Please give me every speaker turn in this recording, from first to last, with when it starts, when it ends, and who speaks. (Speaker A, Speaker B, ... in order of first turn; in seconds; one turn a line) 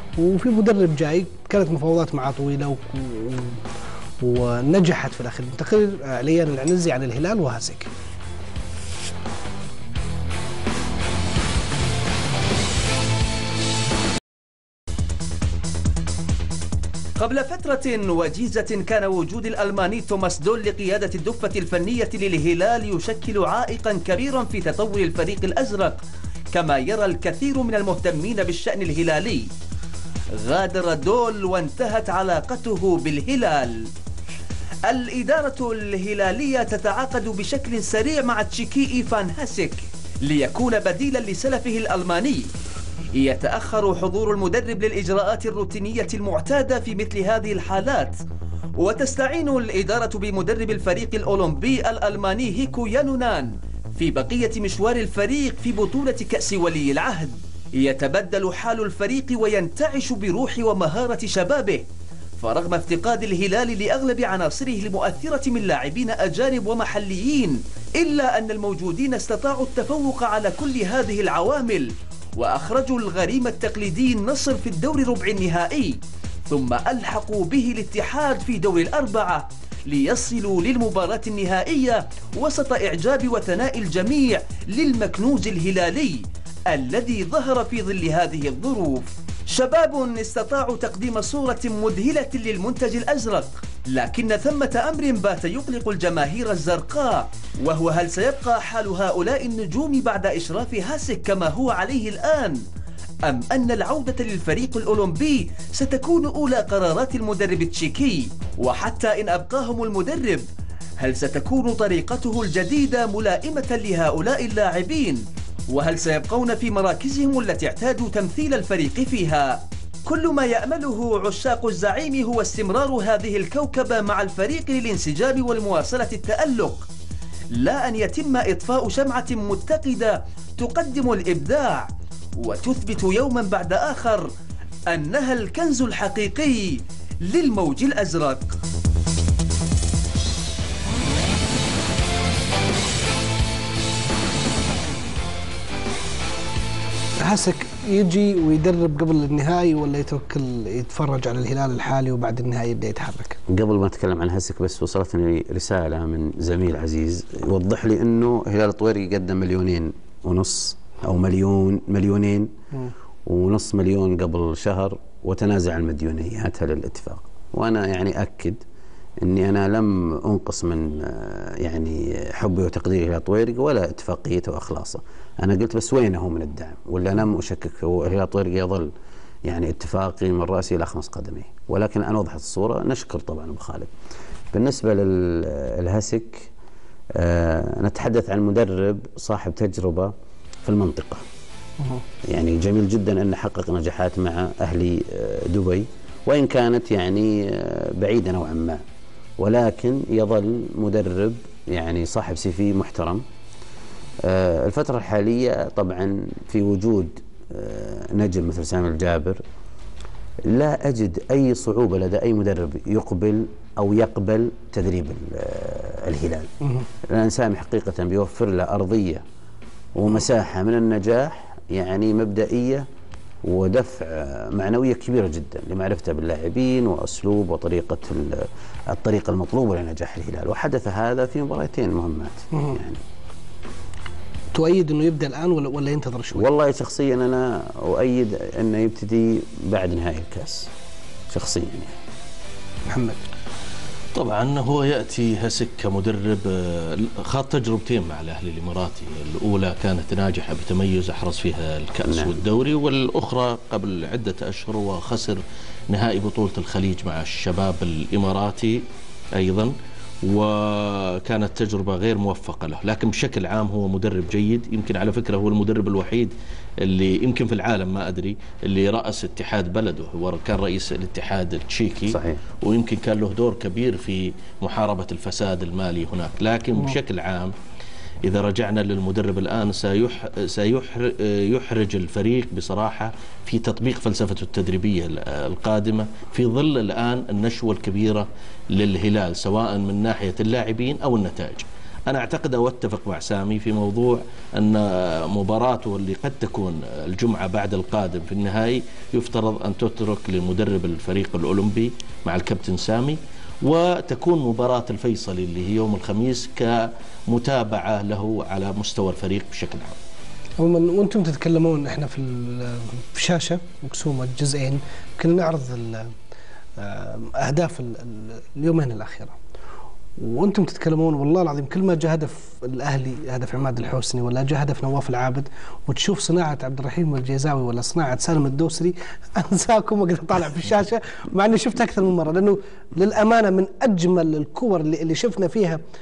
Speaker A: 0.2-3.6
Speaker A: 4.2-7.9
Speaker B: 17.2-29.5
Speaker B: 30.4-33.9
Speaker B: 34.9-42.5
Speaker B: 43.1-48.2
Speaker B: 48.8-61.9
Speaker B: 62.4-102.6
Speaker B: 103.2-110.5
Speaker B: 111.0-126.9
Speaker B: 127.5-134.3
Speaker B: 134.9-138.6
Speaker A: 147.2-153.4
Speaker C: 153.5-162.5
Speaker C: 163.2-168.6
Speaker C: 169.2-178.9
Speaker C: 179.4-183.9
Speaker C: 184.5-186.5
Speaker C: 187.2-190.1
Speaker C: 190.6-191.2
Speaker C: 192.3-198.8
Speaker C: 199.4-203.2
Speaker C: 204.2-209.4
Speaker C: 210.4-216.5
Speaker C: 217.1-219.2
Speaker C: 219.9-222.8
Speaker C: 223.4-233.0
Speaker A: 232.5-232.8
Speaker A: 234.5-236.5
Speaker C: 236.3-240.7
Speaker C: 241.3-241.9
Speaker A: 242.8-243.2
Speaker D: 244.1-258.8
Speaker C: 252.0-252.4
Speaker D: 259.4-259.7
Speaker D: 260.2-277.5
Speaker C: 272.1-272.4
Speaker D: 278.2-310.0
Speaker A: 310.6-316.1
Speaker A: 316.8-319.4
Speaker A: 320.2-335.8